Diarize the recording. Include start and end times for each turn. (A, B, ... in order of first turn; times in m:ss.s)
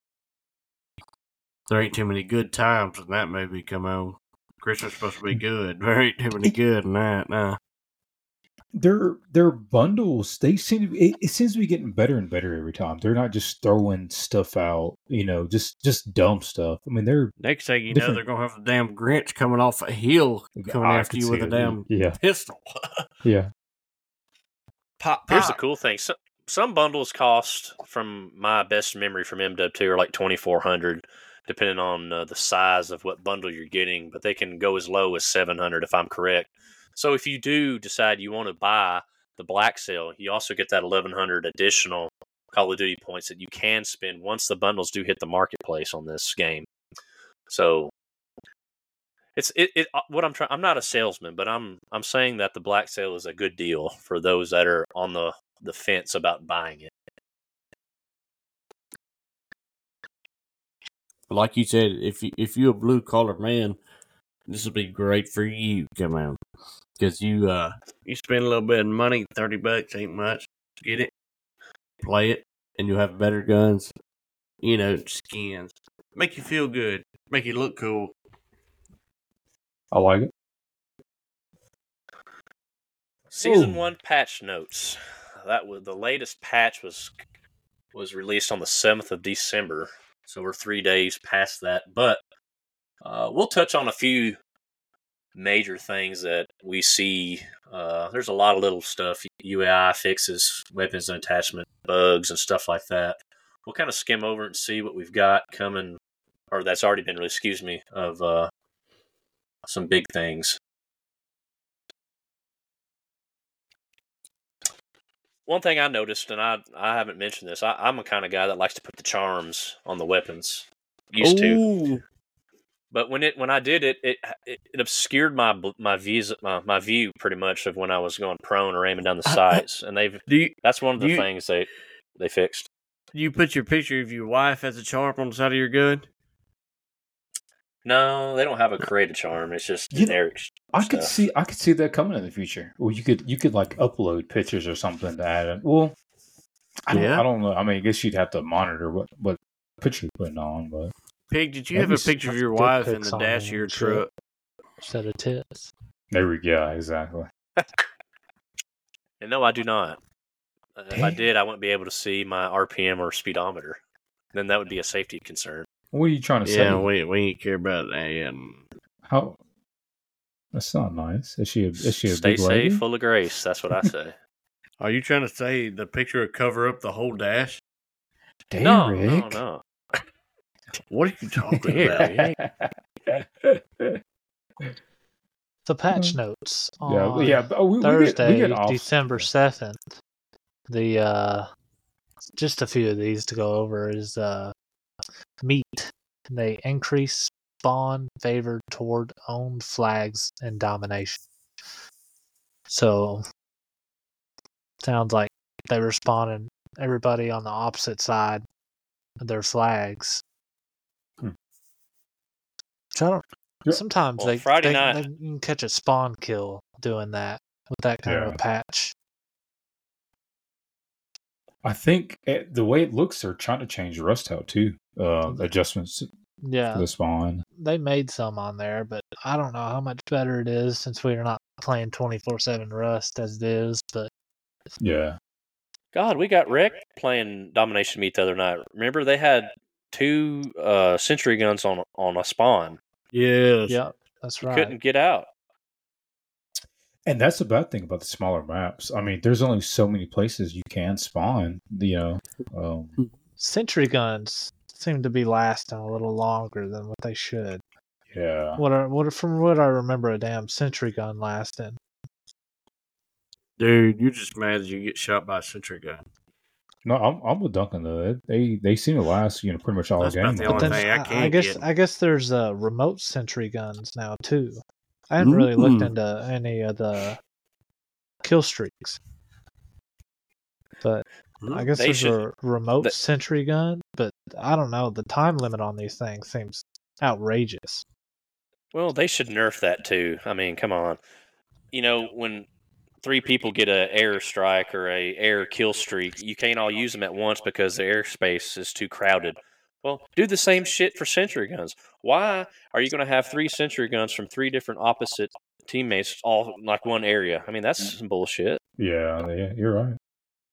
0:01.7-0:07.6 A
0:08.7-0:17.3 B
0:17.4-0:23.0 A
0:17.9-0:18.2 B
0:20.6-0:22.2 B
0:23.2-0:23.5 B
0:25.0-0:25.6 A
0:25.3-0:46.6 C
0:47.5-0:47.9 C
0:49.4-0:56.9 C
1:01.3-1:03.8 A
1:04.5-1:06.4 A
1:07.0-1:11.1 A
1:12.0-1:13.9 A
1:14.6-1:18.1 A
1:19.9-1:20.3 B
1:23.3-1:27.1 C
1:23.4-1:23.9 B
1:27.9-1:32.2 C
1:33.0-1:34.4 C
1:35.4-1:46.0 C
1:46.5-1:48.5 C
1:49.7-1:50.6 C
1:55.5-2:01.6 C
2:01.2-2:02.0 A
2:02.9-2:12.7 C
2:09.2-2:09.6 A
2:10.3-2:11.2 A
2:13.1-2:16.0 A
2:17.8-2:21.1 C
2:19.9-2:20.2 B
2:20.7-2:25.9 B
2:26.9-2:30.9 B
2:26.9-2:27.2 A
2:31.3-2:34.1 A
2:31.7-2:32.2 B
2:32.3-2:34.0 D
2:34.8-2:35.7 D
2:36.1-2:37.3 B
2:39.2-2:40.0 C
2:40.8-2:43.8 C
2:40.9-2:41.2 B
2:44.3-2:45.6 C
2:45.9-2:46.8 B
2:46.4-2:48.6 A
2:49.1-2:49.4 B
2:50.5-2:52.8 B
2:51.8-2:54.1 C
2:54.8-2:57.6 A
2:58.5-2:59.4 B
2:58.6-2:59.6 C
3:00.9-3:02.1 A
3:01.5-3:04.0 B
3:01.6-3:02.3 C
3:05.6-3:09.9 D
3:05.9-3:06.2 B
3:06.8-3:09.3 B
3:10.7-3:11.5 D
3:12.4-3:14.5 D
3:15.4-3:21.2 D
3:22.7-3:23.2 D
3:24.8-3:28.4 D
3:29.2-3:30.2 D
3:32.9-3:38.9 D
3:34.2-3:35.0 C
3:38.0-3:38.4 B
3:41.6-3:46.1 B
3:46.4-3:46.9 D
3:46.7-3:47.4 B
3:47.6-3:54.1 D
3:54.8-3:55.2 B
3:55.9-4:02.8 C
4:03.1-4:03.8 A
4:03.7-4:04.7 D
4:04.4-4:05.3 C
4:07.0-4:13.0 B
4:13.4-4:17.6 D
4:18.1-4:18.6 B
4:18.6-4:21.8 D
4:23.6-4:26.0 A
4:26.8-4:30.8 B
4:30.0-4:31.6 A
4:30.5-4:37.2 D
4:35.2-4:35.9 A
4:38.2-4:39.0 D
4:40.8-4:47.8 D
4:41.4-4:41.7 A
4:41.7-4:42.2 C
4:48.7-4:51.0 C
4:51.7-4:52.5 C
4:53.0-5:08.6 C
5:08.8-5:10.0 B